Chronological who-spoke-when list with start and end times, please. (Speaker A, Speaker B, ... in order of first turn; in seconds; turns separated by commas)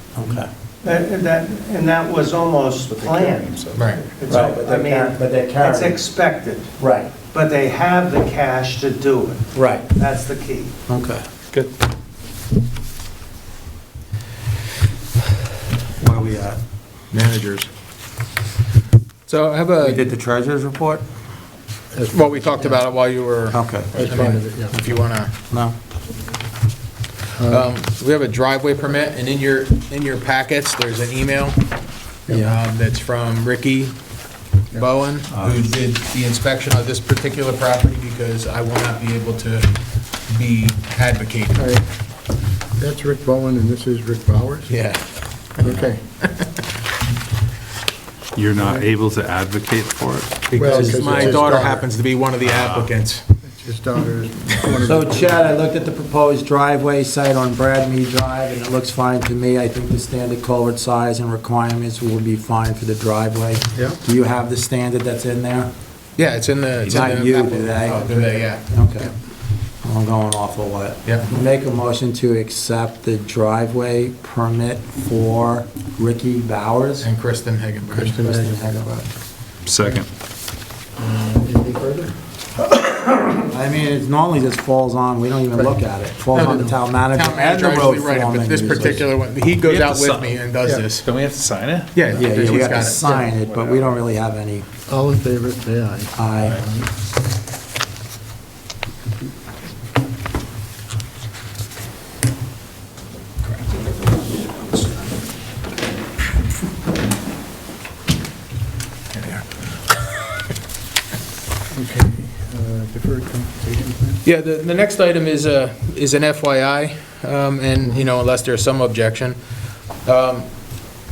Speaker A: 0.1-0.5, Speaker B: 0.8-6.7, Speaker C: 2.9-3.9, Speaker D: 3.7-4.0, Speaker A: 4.3-6.0, Speaker A: 6.8-7.1, Speaker B: 7.3-10.7, Speaker A: 9.5-9.9, Speaker A: 10.9-11.2, Speaker A: 16.0-16.6, Speaker D: 17.1-17.7, Speaker D: 19.3-20.1, Speaker A: 19.8-21.0, Speaker E: 21.9-22.8, Speaker D: 22.1-25.3, Speaker A: 23.5-24.3, Speaker E: 23.9-25.0, Speaker A: 25.5-25.8, Speaker E: 27.4-27.7, Speaker D: 27.5-31.6, Speaker D: 32.3-34.0, Speaker A: 32.3-32.6, Speaker D: 34.7-39.7, Speaker C: 35.3-35.6, Speaker D: 40.3-41.7, Speaker E: 41.5-41.8, Speaker E: 42.8-44.7, Speaker D: 44.7-46.6, Speaker E: 45.6-46.0, Speaker C: 48.3-50.6, Speaker D: 50.5-53.2, Speaker E: 50.5-51.9, Speaker A: 50.6-51.5, Speaker C: 52.4-52.9, Speaker E: 53.5-55.5, Speaker A: 54.8-65.7, Speaker D: 66.2-68.6, Speaker A: 66.8-69.1, Speaker A: 69.8-77.1, Speaker D: 77.0-78.1, Speaker E: 77.9-78.9, Speaker A: 78.0-79.0, Speaker C: 79.6-80.1, Speaker E: 81.0-82.1, Speaker A: 83.3-89.1, Speaker D: 86.3-91.1, Speaker E: 86.4-86.7, Speaker C: 89.6-90.4, Speaker C: 91.0-94.0, Speaker D: 91.9-93.3, Speaker A: 92.1-94.6, Speaker E: 94.9-96.9, Speaker A: 96.2-96.6, Speaker D: 109.1-109.5, Speaker E: 111.7-114.2, Speaker D: 114.2-119.4, Speaker D: 120.0-120.5